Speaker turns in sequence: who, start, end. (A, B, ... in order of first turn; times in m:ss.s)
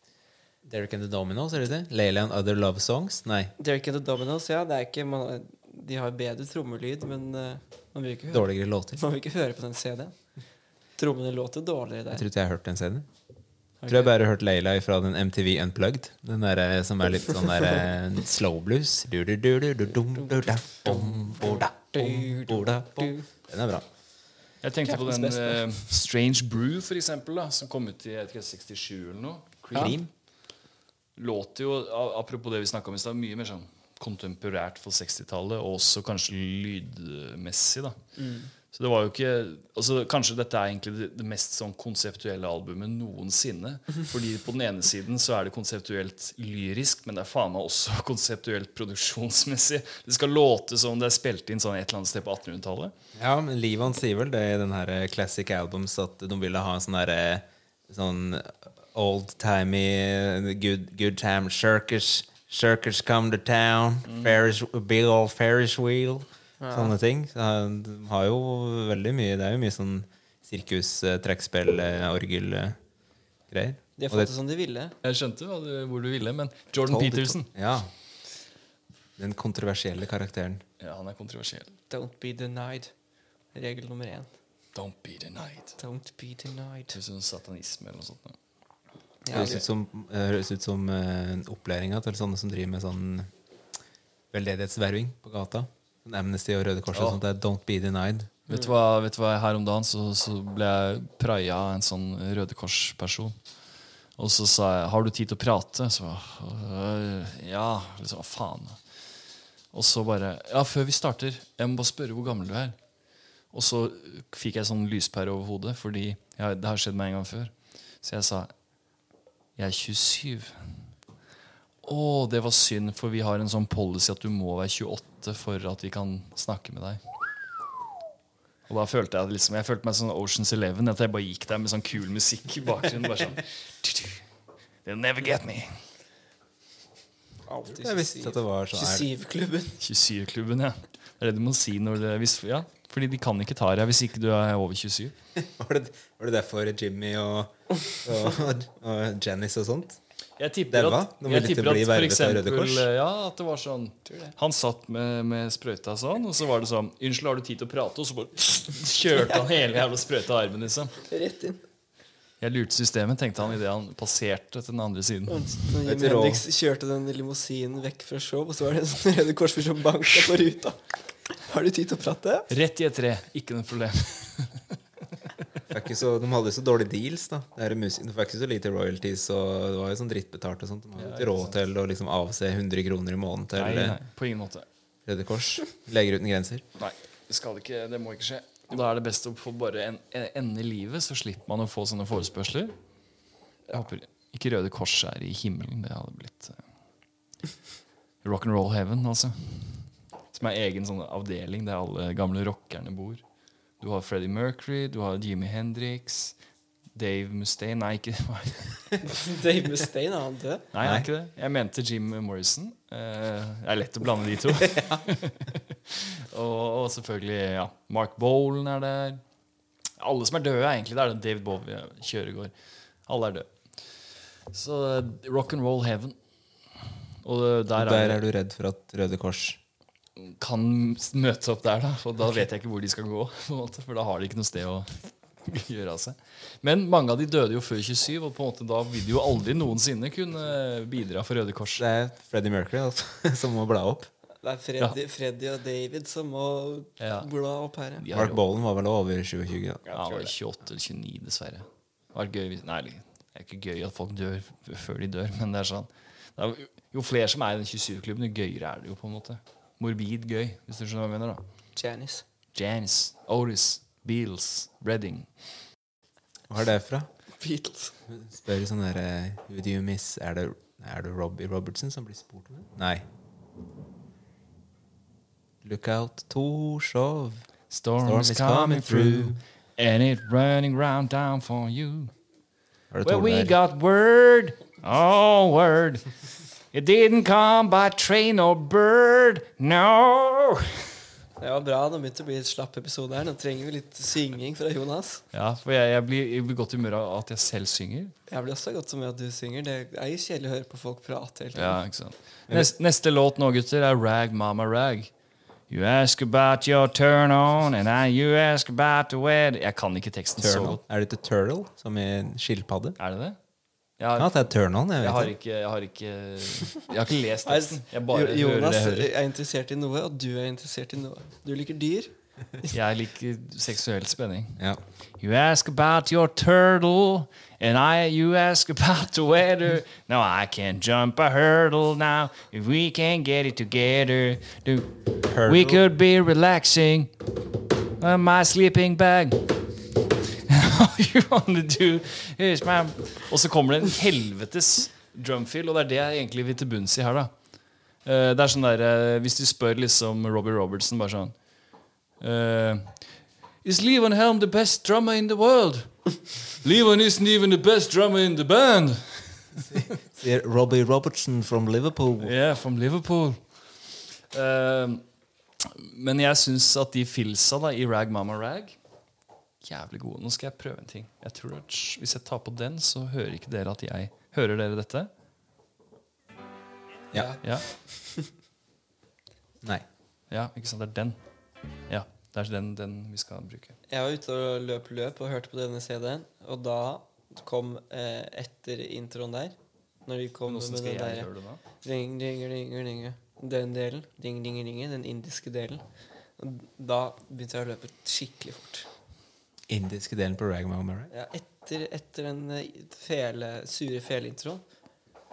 0:00.6-0:03.5 A
0:03.6-0:10.2 B
0:08.3-0:09.0 A
0:11.0-0:12.2 B
0:12.1-0:13.1 A
0:13.8-0:14.1 B
0:13.9-0:23.9 A
0:20.2-0:23.3 B
0:24.6-0:30.0 C
0:24.9-0:25.6 B
0:29.7-0:30.1 A
0:31.2-0:38.0 C
0:38.2-0:38.5 B
0:38.7-0:52.9 C
0:53.2-1:12.8 A
1:04.1-1:04.4 C
1:06.6-1:06.9 B
1:13.5-1:14.3 A
1:14.0-1:14.9 B
1:15.0-1:17.5 C
1:16.9-1:17.9 A
1:19.2-1:20.6 A
1:20.8-1:21.8 C
1:21.9-1:22.9 B
1:23.5-1:24.3 B
1:24.8-1:25.8 C
1:25.8-1:27.0 B
1:26.9-1:28.4 C
1:29.2-1:29.6 B
1:29.3-1:33.3 A
1:34.3-1:38.3 A
1:36.9-1:37.2 C
1:38.5-1:43.4 C
1:44.2-1:48.8 C
1:49.7-1:52.8 C
1:53.5-1:58.5 C
1:59.6-2:00.6 C
2:01.8-2:07.0 C
2:08.7-2:14.2 C
2:14.8-2:15.8 C
2:17.5-2:19.8 B
2:17.7-2:19.1 A
2:19.8-2:25.1 C
2:25.4-2:30.0 A
2:30.4-2:41.0 C
2:30.7-2:32.9 A
2:41.0-2:41.6 B
2:42.4-2:45.6 C
2:45.3-2:52.5 B
2:45.8-2:46.4 A
2:52.5-2:54.7 C
2:55.7-3:04.0 A
3:01.0-3:01.6 C
3:03.6-3:04.7 C
3:05.1-3:06.6 A
3:06.8-3:12.7 C
3:13.7-3:16.6 C
3:18.2-3:23.2 C
3:23.8-3:26.4 C
3:27.0-3:28.9 C
3:29.0-3:30.7 B
3:30.7-3:39.2 C
3:30.8-3:31.1 A
3:40.0-3:42.5 C
3:43.1-3:44.0 C
3:44.5-3:46.2 C
3:47.2-3:48.2 C
3:47.8-3:49.6 A
3:50.2-4:01.8 C
4:01.8-4:04.1 A
4:04.4-4:08.0 B
4:07.0-4:07.3 C
4:08.0-4:08.4 C
4:08.1-4:10.3 A
4:09.9-4:21.4 C
4:21.8-4:22.2 B
4:22.5-4:25.3 C
4:26.5-4:27.1 A
4:27.4-4:28.0 B
4:28.1-4:33.0 A
4:35.6-4:37.4 A
4:37.7-4:42.1 C
4:38.0-4:39.4 A
4:42.9-4:43.5 A
4:43.0-4:46.1 C
4:46.7-4:50.9 C
4:51.4-4:55.2 B
4:55.3-4:58.1 C
4:58.3-5:01.8 B
5:01.6-5:05.1 C
5:05.7-5:10.8 C
5:10.4-5:13.0 A
5:13.0-5:13.4 C
5:14.0-5:14.4 C
5:14.2-5:15.3 A
5:15.0-5:19.1 C
5:17.5-5:22.7 B
5:22.7-5:24.6 C
5:25.2-5:37.1 C
5:35.3-5:35.8 A
5:38.0-5:39.6 C
5:40.3-5:47.3 C
5:48.0-5:51.4 C
5:52.2-5:53.0 C
5:53.6-5:59.8 C
5:59.7-6:02.3 A
6:02.2-6:03.4 C
6:04.3-6:05.0 C
6:05.6-6:08.8 C
6:09.6-6:15.1 C
6:17.1-6:18.2 B
6:20.3-6:21.2 C
6:21.9-6:23.8 C
6:23.9-6:29.6 B
6:30.1-6:31.3 B
6:30.5-6:31.6 C
6:31.8-6:35.8 B
6:36.4-6:38.9 B
6:39.7-6:41.1 A
6:41.1-6:44.6 B